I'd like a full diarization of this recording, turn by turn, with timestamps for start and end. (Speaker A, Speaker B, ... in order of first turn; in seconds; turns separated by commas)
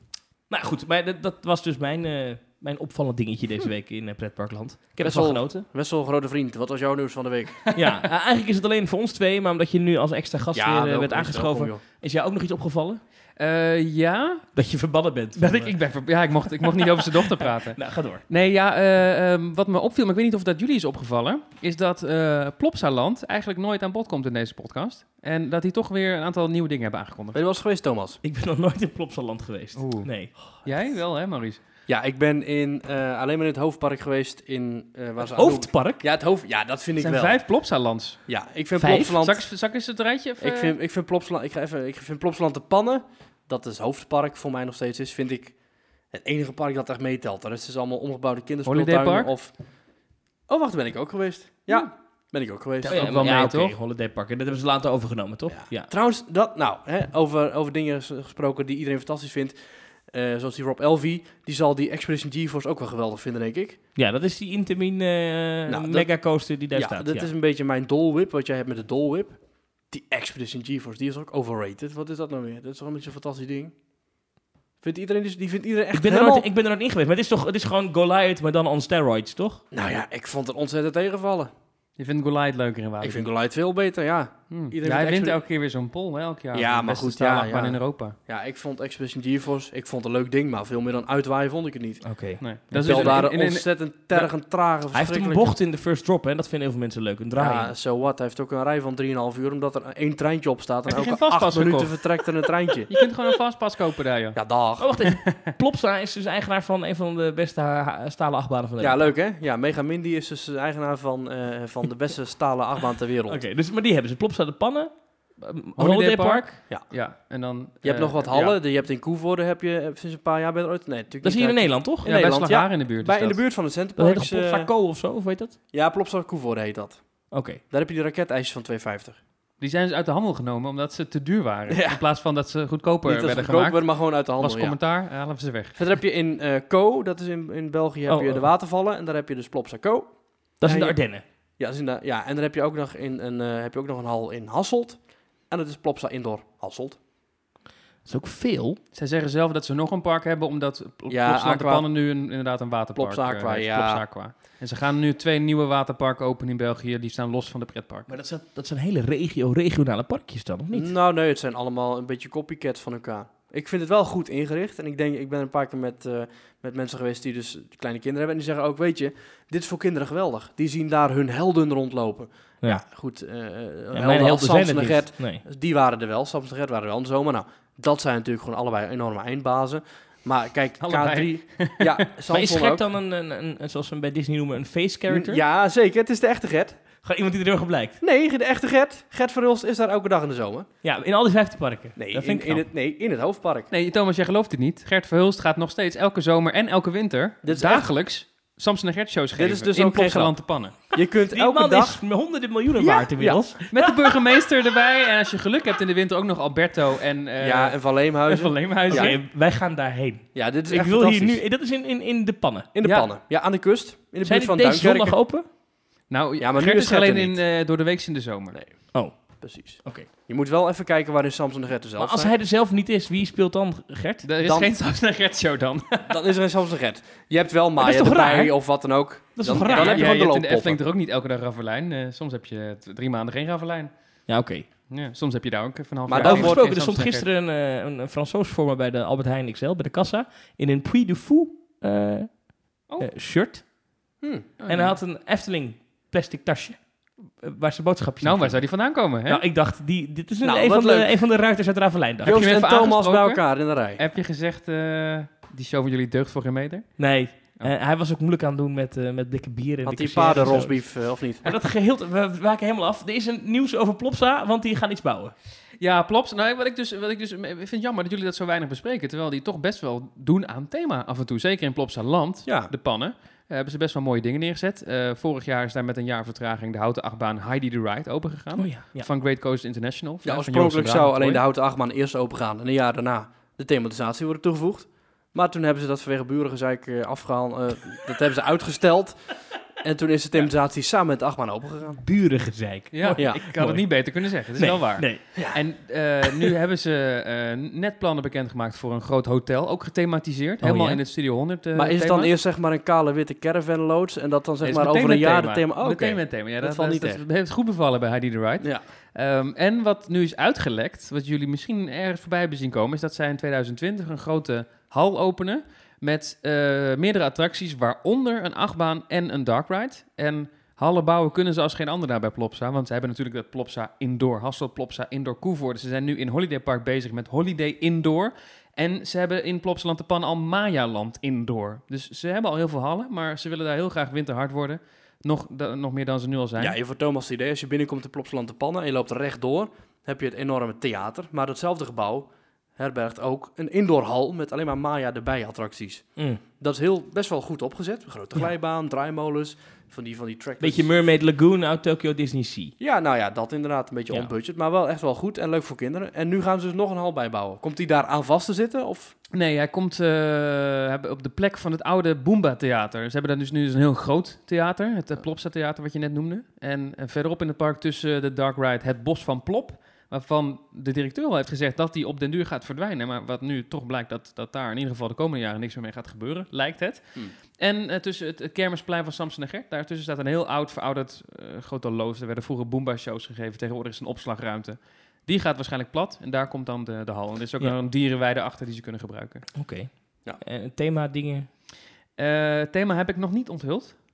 Speaker A: 0.5-5.6, Speaker B: 5.0-7.7, Speaker C: 7.7-7.9, Speaker A: 7.7-13.0, Speaker B: 10.5-11.8, Speaker C: 13.4-14.5, Speaker A: 14.5-15.7, Speaker C: 15.3-27.4, Speaker A: 16.5-18.2, Speaker B: 27.3-28.2, Speaker A: 28.2-30.3, Speaker C: 29.8-30.1, Speaker C: 30.6-31.6, Speaker B: 31.9-37.4, Speaker A: 35.2-36.0, Speaker C: 37.0-38.2, Speaker B: 38.3-39.4, Speaker A: 38.8-39.2, Speaker C: 39.1-40.7, Speaker B: 40.4-45.5, Speaker B: 46.1-49.5, Speaker C: 48.6-49.3, Speaker B: 50.5-52.9, Speaker C: 52.8-53.7, Speaker A: 52.8-55.9, Speaker B: 55.5-59.5, Speaker B: 60.1-63.8, Speaker A: 64.0-67.3, Speaker B: 65.7-69.4, Speaker B: 69.9-73.7, Speaker B: 74.8-76.5, Speaker A: 75.9-79.6, Speaker B: 79.7-81.5, Speaker C: 82.0-83.3, Speaker B: 83.0-85.4, Speaker C: 84.5-88.2, Speaker B: 86.5-92.0, Speaker A: 92.0-93.2, Speaker C: 92.4-94.3, Speaker B: 92.7-95.5, Speaker A: 94.9-97.7, Speaker B: 97.4-102.9, Speaker C: 100.9-102.3, Speaker C: 102.9-104.4, Speaker B: 104.3-104.9, Speaker A: 104.8-109.1, Speaker C: 105.0-105.5, Speaker B: 108.8-113.4, Speaker A: 113.3-116.6, Speaker C: 115.8-118.6, Speaker B: 117.8-124.7, Speaker A: 121.2-122.1, Speaker C: 122.0-123.4, Speaker A: 124.0-125.6, Speaker B: 125.7-129.2, Speaker A: 127.3-127.6, Speaker C: 129.6-135.8, Speaker B: 131.7-132.0, Speaker B: 133.1-134.8, Speaker B: 135.7-141.0, Speaker A: 138.1-138.5, Speaker A: 140.6-141.2, Speaker B: 141.6-147.0, Speaker A: 148.0-148.8, Speaker C: 148.9-158.1, Speaker B: 151.1-151.9, Speaker B: 152.9-154.0, Speaker A: 158.1-160.9, Speaker B: 160.7-182.8, Speaker A: 173.9-175.4, Speaker C: 180.8-182.1, Speaker A: 182.3-185.4, Speaker B: 185.1-186.8, Speaker A: 187.0-188.0, Speaker B: 188.0-190.7, Speaker A: 190.8-192.7, Speaker B: 191.9-193.7, Speaker C: 193.7-200.8, Speaker B: 197.4-197.9, Speaker B: 199.3-200.3, Speaker B: 200.9-202.0, Speaker A: 201.3-203.6, Speaker B: 202.8-203.9, Speaker C: 203.7-209.1, Speaker B: 207.4-209.2, Speaker A: 208.9-212.7, Speaker B: 210.3-211.4, Speaker B: 212.7-215.2, Speaker C: 212.8-213.1, Speaker A: 214.2-215.5, Speaker C: 216.1-218.6, Speaker B: 216.4-217.4, Speaker A: 218.9-220.1, Speaker B: 219.4-222.3, Speaker A: 222.0-224.3, Speaker C: 224.2-226.2, Speaker B: 224.4-224.7, Speaker B: 226.1-230.8, Speaker A: 227.8-228.6, Speaker A: 229.3-230.1, Speaker C: 229.6-233.9, Speaker A: 234.3-234.7, Speaker C: 234.9-237.2, Speaker B: 236.1-236.6, Speaker A: 236.1-242.4, Speaker A: 243.0-243.7, Speaker B: 244.2-244.5, Speaker C: 244.6-245.0, Speaker A: 244.7-248.7, Speaker C: 248.2-249.4, Speaker A: 249.2-252.4, Speaker B: 250.4-251.2, Speaker B: 252.2-254.0, Speaker C: 252.2-256.9, Speaker A: 257.0-265.3, Speaker B: 259.8-261.5, Speaker C: 265.8-281.4, Speaker B: 272.4-272.7, Speaker A: 278.6-279.1, Speaker B: 280.2-292.0, Speaker A: 292.0-295.2, Speaker C: 292.9-302.3, Speaker B: 293.1-293.4, Speaker A: 300.6-301.0, Speaker B: 301.7-307.2, Speaker C: 304.6-336.8, Speaker B: 336.6-350.9, Speaker A: 350.6-352.7, Speaker B: 352.8-359.1, Speaker C: 359.3-389.4, Speaker A: 389.5-391.5, Speaker C: 392.2-394.0